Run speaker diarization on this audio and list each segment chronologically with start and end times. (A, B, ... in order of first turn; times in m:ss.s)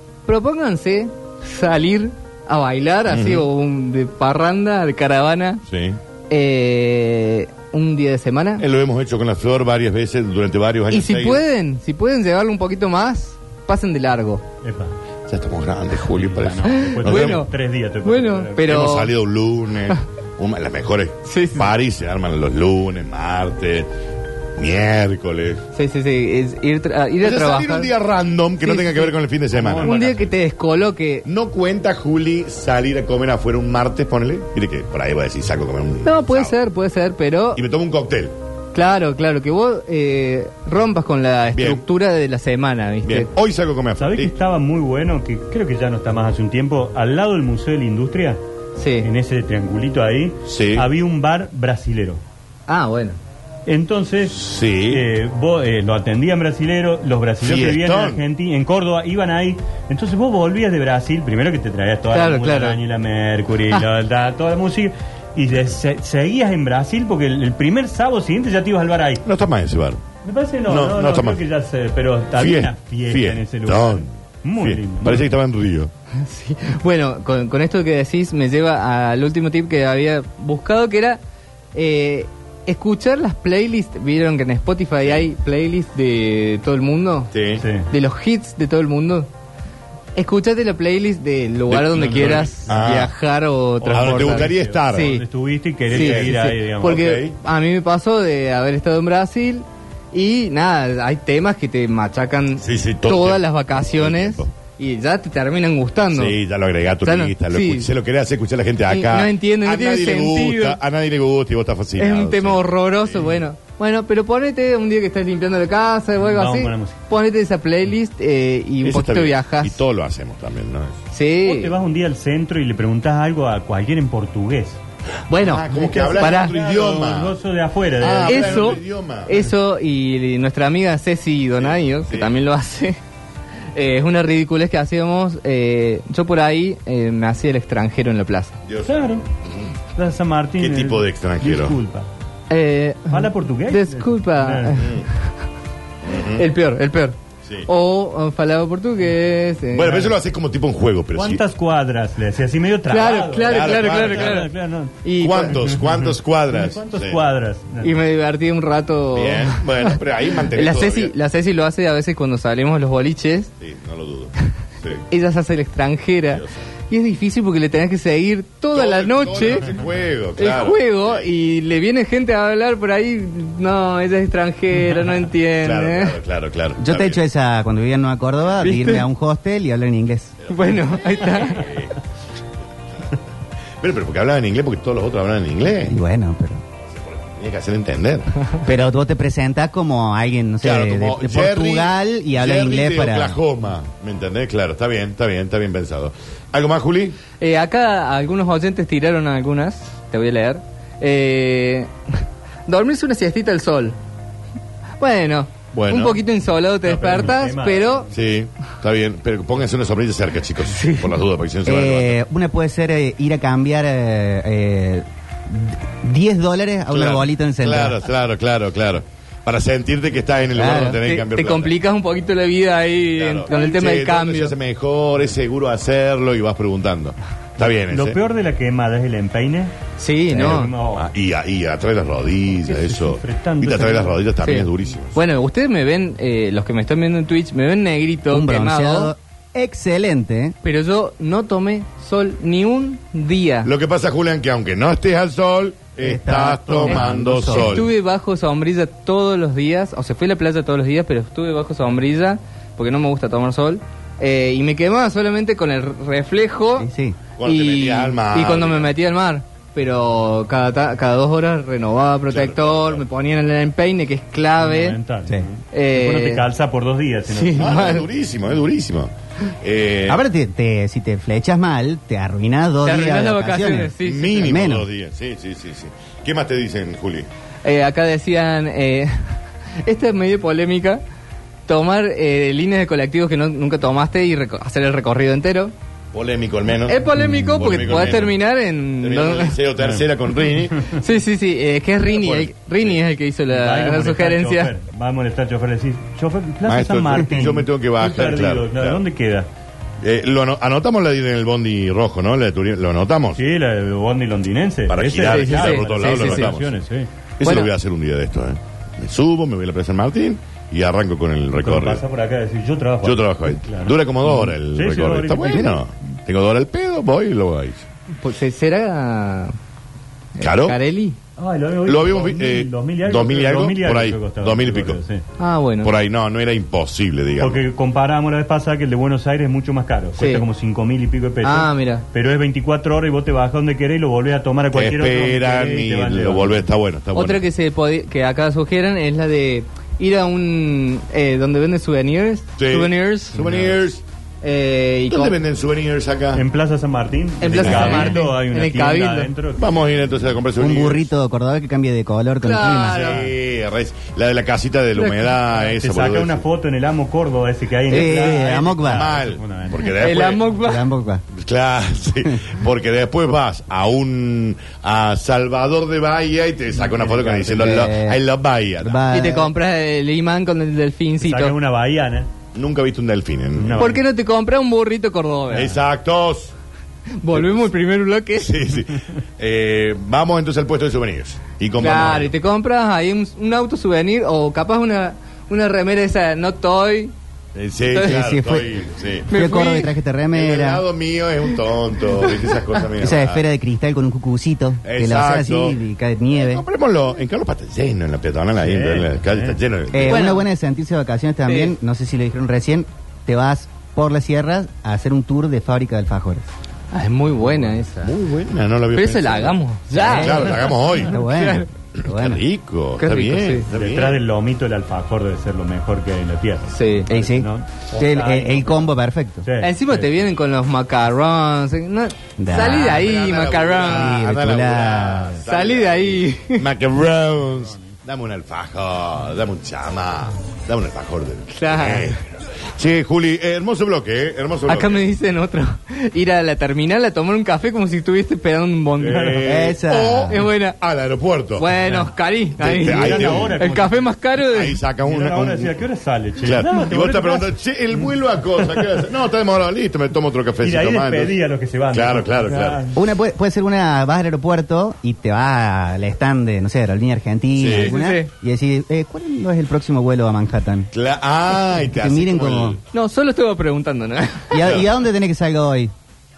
0:00.2-0:05.6 A
0:03.1-0:03.4 B
0:05.6-0:06.0 B
0:06.3-0:08.6 A
0:08.6-0:11.4 B
0:10.9-0:14.4 A
0:14.6-0:14.9 C
0:15.3-0:17.4 B
0:16.1-0:18.8 C
0:16.6-0:17.5 A
0:18.0-0:19.1 A
0:18.6-0:23.9 B
0:21.2-0:21.7 A
0:24.6-0:25.6 B
0:25.7-0:27.9 A
0:27.2-0:29.9 B
0:28.6-0:29.1 A
0:29.5-0:30.3 C
0:29.8-0:31.2 A
0:31.2-0:36.6 B
0:36.0-0:37.6 A
0:37.5-0:38.3 B
0:38.7-0:43.3 A
0:41.5-0:41.8 B
0:43.0-0:44.3 B
0:44.0-0:48.4 C
0:48.8-0:49.1 A
0:49.0-0:52.2 C
0:50.5-0:50.8 B
0:52.7-0:53.2 A
0:53.6-1:09.2 C
0:54.3-0:55.0 B
0:57.4-0:58.2 B
1:02.1-1:02.8 A
1:09.2-1:10.0 B
1:10.2-1:15.3 C
1:10.7-1:11.4 B
1:12.3-1:15.9 B
1:16.2-1:21.2 A
1:21.7-1:27.3 A
1:27.3-1:27.6 B
1:27.6-1:27.9 C
1:27.9-1:29.3 A
1:30.2-1:35.2 A
1:31.7-1:33.1 B
1:31.9-1:32.8 C
1:33.8-1:37.0 C
1:33.9-1:35.2 B
1:35.9-1:37.4 B
1:35.9-1:46.4 A
1:42.6-1:44.5 B
1:46.1-1:53.4 B
1:47.0-1:47.9 A
1:48.9-1:50.8 A
1:52.0-1:59.8 A
1:56.2-1:57.0 C
1:58.8-2:01.0 B
2:01.1-2:01.7 A
2:01.4-2:04.8 C
2:05.3-2:06.6 A
2:05.3-2:07.4 B
2:05.7-2:09.4 C
2:08.0-2:09.3 B
2:08.2-2:13.0 A
2:11.6-2:12.3 B
2:13.7-2:18.5 A
2:18.6-2:19.7 B
2:18.8-2:19.2 C
2:19.9-2:22.1 C
2:20.6-2:21.8 B
2:22.5-2:25.3 A
2:23.1-2:24.9 C
2:24.7-2:25.1 B
2:26.0-2:26.5 B
2:26.3-2:30.1 A
2:29.7-2:31.4 B
2:29.8-2:30.1 C
2:31.1-2:38.0 C
2:32.9-2:34.5 A
2:33.4-2:34.5 B
2:35.0-2:35.6 A
2:35.2-2:37.2 B
2:37.8-2:40.0 A
2:39.1-2:41.1 B
2:40.5-2:43.5 A
2:43.6-2:45.0 B
2:45.1-2:49.7 A
2:48.7-2:51.3 B
2:50.4-2:56.2 A
2:55.6-2:57.2 B
2:56.8-3:00.4 D
2:58.6-2:59.1 A
3:00.4-3:02.0 B
3:00.5-3:01.7 A
3:03.8-3:06.0 B
3:05.8-3:06.6 D
3:06.8-3:08.5 B
3:08.6-3:13.4 D
3:10.6-3:17.2 B
3:17.4-3:21.9 A
3:22.6-3:24.0 A
3:25.0-3:28.1 A
3:25.7-3:26.2 B
3:26.8-3:28.2 C
3:28.1-3:32.2 B
3:30.7-3:31.2 A
3:31.6-3:38.0 D
3:36.9-3:41.7 B
3:40.5-3:41.0 D
3:40.6-3:44.5 A
3:43.2-3:48.2 B
3:47.6-3:49.7 C
3:50.0-3:50.7 A
3:50.3-3:51.1 C
3:50.3-3:50.6 D
3:50.9-3:55.2 B
3:52.6-3:54.2 C
3:54.4-3:59.1 A
3:58.3-4:00.6 D
4:00.6-4:03.7 A
4:03.6-4:07.9 B
4:06.0-4:07.8 D
4:06.9-4:16.9 A
4:16.8-4:17.2 D
4:17.4-4:18.9 B
4:17.4-4:25.0 A
4:22.3-4:23.0 B
4:24.6-4:27.7 C
4:25.7-4:26.4 A
4:27.3-4:28.0 A
4:27.5-4:30.2 B
4:30.1-4:34.9 D
4:32.8-4:34.5 A
4:34.0-4:37.3 B
4:37.6-4:39.3 A
4:39.8-4:41.0 A
4:41.7-4:45.7 A
4:46.1-4:48.4 B
4:46.9-4:49.6 A
4:49.0-4:50.9 B
4:49.8-4:50.1 C
4:50.9-4:54.7 A
4:52.0-4:53.0 B
4:53.5-4:59.5 C
4:56.6-4:59.0 B
5:00.0-5:03.4 B
5:03.4-5:07.1 C
5:04.9-5:06.8 B
5:05.2-5:06.5 A
5:07.4-5:12.0 B
5:07.4-5:07.7 A
5:11.6-5:15.8 C
5:13.0-5:17.9 B
5:18.2-5:19.5 A
5:20.3-5:21.2 A
5:20.4-5:20.8 B
5:21.4-5:25.2 C
5:21.8-5:25.0 B
5:25.4-5:25.9 A
5:25.8-5:27.6 B
5:27.4-5:36.7 C
5:30.2-5:30.4 A
5:31.4-5:32.0 A
5:34.7-5:37.4 B
5:37.1-5:43.4 A
5:42.6-5:44.0 B
5:43.3-5:43.8 C
5:44.4-5:45.4 A
5:45.1-5:46.4 B
5:46.3-5:50.1 C
5:47.4-5:49.3 A
5:47.6-5:48.1 B
5:49.6-5:51.1 B
5:50.6-5:53.1 D
5:52.4-5:53.2 A
5:52.9-5:53.3 C
5:52.9-5:56.4 B
5:55.0-5:59.9 C
5:57.9-5:59.2 D
5:58.3-6:00.4 B
5:59.8-6:00.9 A
6:00.6-6:01.2 D
6:01.3-6:09.1 B
6:06.8-6:07.4 C
6:07.3-6:08.2 D
6:08.8-6:09.5 D
6:09.1-6:11.5 A
6:11.2-6:12.3 C
6:12.5-6:14.0 B
6:13.6-6:14.0 C
6:13.8-6:15.7 A
6:15.5-6:15.8 C
6:15.5-6:16.5 B
6:17.2-6:18.6 A
6:17.3-6:17.6 B
6:18.4-6:22.3 B
6:21.8-6:27.1 A
6:27.5-6:29.3 B
6:27.9-6:28.3 A
6:27.9-6:28.7 D
6:29.3-6:30.0 A
6:29.3-6:30.8 D
6:30.3-6:33.4 B
6:33.0-6:36.6 D
6:34.8-6:35.8 B
6:36.3-6:40.2 B
6:38.6-6:39.6 C
6:39.9-6:46.5 D
6:40.0-6:40.5 A
6:41.4-6:41.8 A
6:46.9-6:48.1 A
6:48.0-6:51.2 B
6:48.9-6:51.7 A
6:49.9-6:52.4 D
6:52.0-6:54.2 B
6:53.0-6:53.7 A
6:53.7-6:58.9 C
6:56.7-6:57.1 A
6:57.1-6:59.4 D
6:59.4-7:00.2 C
6:59.6-7:04.3 A
7:02.4-7:03.1 D
7:02.7-7:15.1 B
7:03.8-7:05.4 D
7:05.4-7:06.6 A
7:11.5-7:12.2 A
7:14.7-7:19.4 A
7:19.0-7:21.7 B
7:19.4-7:20.4 D
7:20.3-7:20.8 A
7:21.6-7:24.8 A
7:21.8-7:22.1 C
7:22.6-7:23.6 B
7:22.8-7:24.1 C
7:24.4-7:25.8 B
7:25.0-7:29.0 C
7:26.4-7:31.3 B
7:30.6-7:33.0 C
7:31.9-7:32.8 B
7:32.9-7:40.9 D
7:37.6-7:38.0 B
7:37.7-7:38.3 A
7:40.9-7:42.8 B
7:41.9-7:42.8 D
7:42.9-7:44.7 A
7:44.5-7:45.9 D
7:44.6-7:44.9 B